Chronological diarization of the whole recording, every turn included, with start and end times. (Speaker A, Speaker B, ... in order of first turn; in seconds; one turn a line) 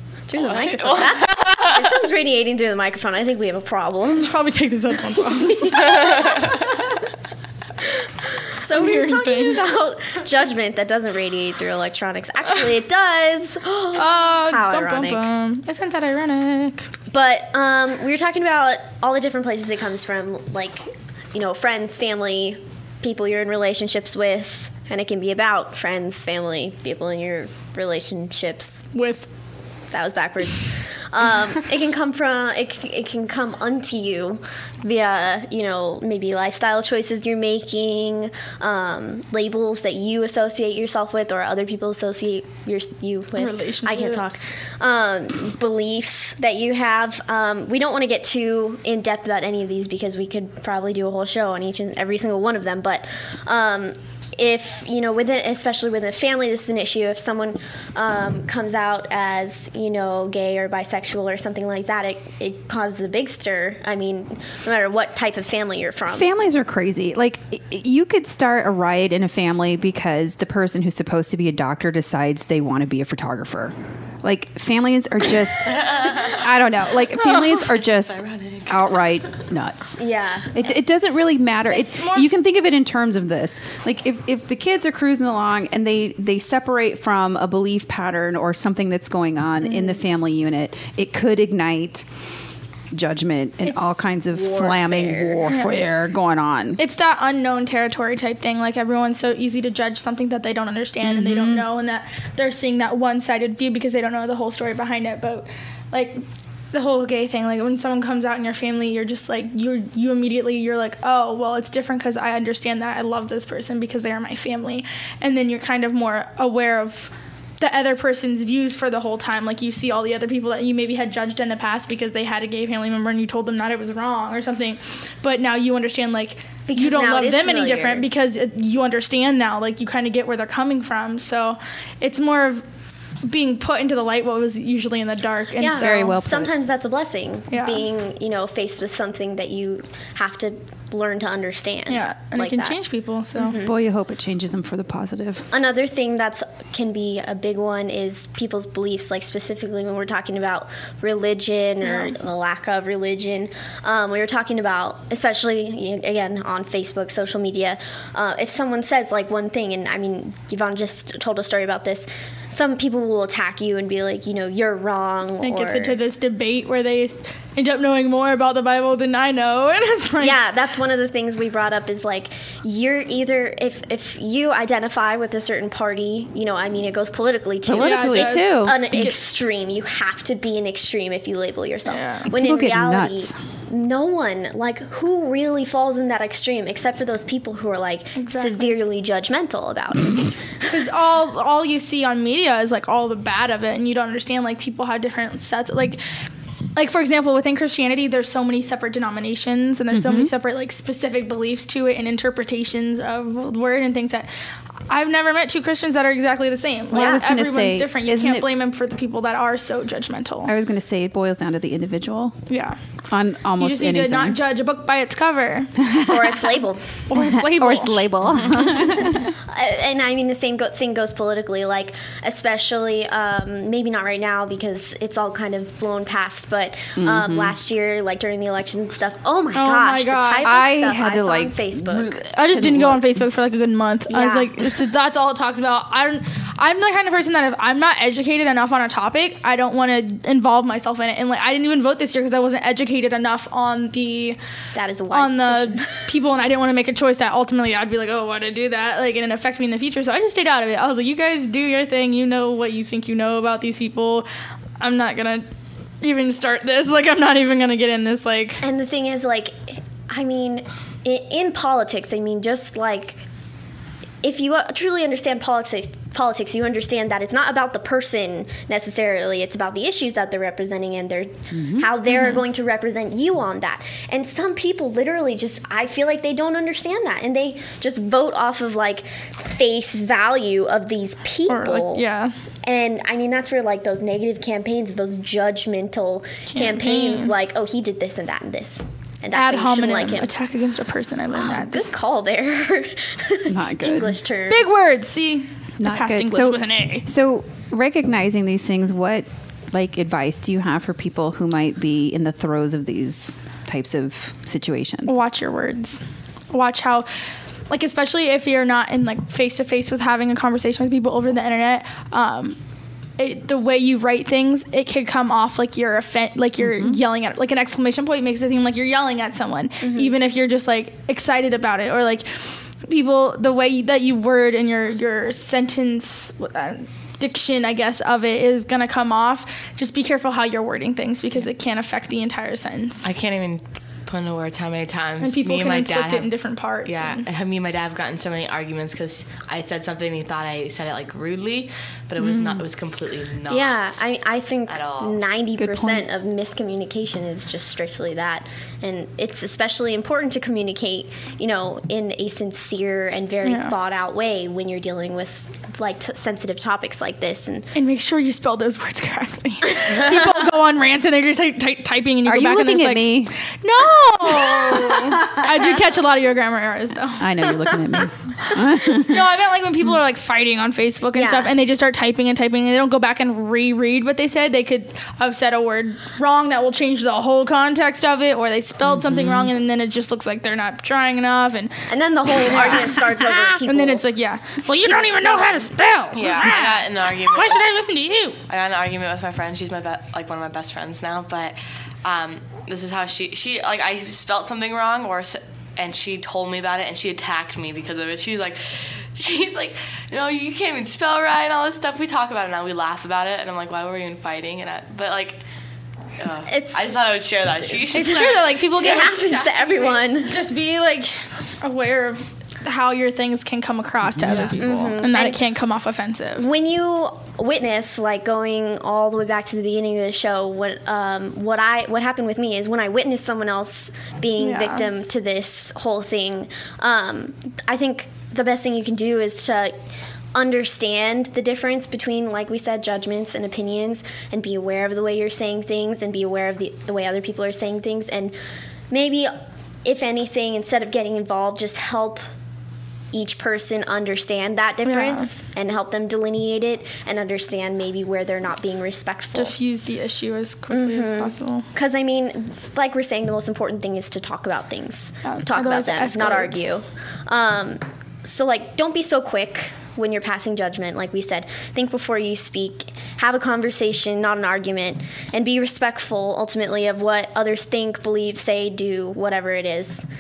Speaker A: 0.3-4.3
Speaker B: 0.3-1.9
Speaker C: 4.2-5.8
Speaker A: 5.4-6.7
Speaker A: 8.6-15.3
Speaker C: 8.7-9.7
Speaker C: 13.9-16.9
Speaker A: 17.1-28.9
Speaker C: 28.9-29.3
Speaker A: 29.9-66.3
Speaker C: 43.4-44.5
Speaker D: 66.1-80.0
Speaker B: 75.7-76.4
Speaker B: 77.2-79.0
Speaker A: 80.0-80.7
Speaker D: 80.5-92.1
Speaker C: 81.7-82.3
Speaker A: 89.6-90.0
Speaker D: 92.9-96.8
Speaker A: 94.2-95.5
Speaker C: 95.5-95.7
Speaker C: 96.8-132.6
Speaker D: 101.0-101.7
Speaker A: 126.7-128.1
Speaker C: 133.2-136.2
Speaker A: 135.6-142.8
Speaker D: 135.7-136.5
Speaker C: 137.5-137.8
Speaker C: 141.9-143.6
Speaker A: 143.4-143.8
Speaker D: 143.6-145.5
Speaker A: 145.5-166.0
Speaker C: 151.8-152.1
Speaker C: 165.4-170.4
Speaker A: 170.2-190.3
Speaker D: 177.6-179.1
Speaker C: 177.8-179.2
Speaker C: 181.9-182.3
Speaker D: 182.3-183.4
Speaker C: 188.2-188.8
Speaker C: 190.7-196.0
Speaker C: 196.8-204.3
Speaker D: 199.9-200.3
Speaker C: 204.9-210.5
Speaker D: 206.9-208.5
Speaker A: 206.9-207.2
Speaker D: 210.4-212.4
Speaker C: 212.5-212.8
Speaker D: 213.1-214.4
Speaker C: 213.6-215.8
Speaker D: 215.8-216.4
Speaker A: 216.0-217.0
Speaker C: 217.1-218.1
Speaker D: 217.2-219.3
Speaker A: 219.5-232.2
Speaker D: 227.0-227.6
Speaker C: 229.5-230.6
Speaker D: 230.4-233.2
Speaker C: 232.3-244.4
Speaker A: 234.1-234.6
Speaker A: 244.8-246.0
Speaker C: 245.1-254.3
Speaker C: 254.8-255.5
Speaker C: 256.0-258.6
Speaker A: 258.6-263.2
Speaker A: 264.2-282.1
Speaker D: 271.5-271.9
Speaker C: 272.1-272.4
Speaker C: 281.5-282.3
Speaker A: 282.6-290.3
Speaker C: 286.5-287.4
Speaker C: 289.3-291.9
Speaker A: 291.3-294.7
Speaker D: 293.5-294.2
Speaker C: 294.5-297.1
Speaker D: 295.8-305.2
Speaker C: 305.1-306.0
Speaker C: 306.5-307.1
Speaker C: 307.7-312.6
Speaker C: 313.2-333.1
Speaker D: 316.6-317.0
Speaker A: 319.8-320.1
Speaker B: 333.0-336.3
Speaker C: 335.2-337.3
Speaker B: 336.9-344.1
Speaker D: 342.2-342.7
Speaker A: 343.5-357.7
Speaker B: 344.7-345.2
Speaker D: 345.6-346.1
Speaker C: 353.4-353.8
Speaker C: 357.8-367.7
Speaker D: 362.2-363.4
Speaker D: 364.8-365.5
Speaker D: 367.2-369.3
Speaker C: 368.5-381.7
Speaker A: 371.1-371.6
Speaker D: 378.9-379.5
Speaker A: 381.9-384.0
Speaker C: 382.4-386.7
Speaker A: 384.9-385.6
Speaker B: 386.1-387.7
Speaker D: 386.4-386.8
Speaker C: 387.3-388.4
Speaker B: 388.5-405.4
Speaker B: 406.2-409.9
Speaker A: 406.5-406.8
Speaker A: 407.6-410.4
Speaker C: 407.9-416.5
Speaker D: 414.0-414.6
Speaker A: 414.6-415.4
Speaker A: 416.4-429.7
Speaker C: 424.4-424.9
Speaker A: 430.3-438.4
Speaker A: 438.9-442.2
Speaker A: 443.1-449.5
Speaker C: 444.9-445.3
Speaker C: 449.4-451.7
Speaker A: 450.7-470.0
Speaker C: 455.2-456.7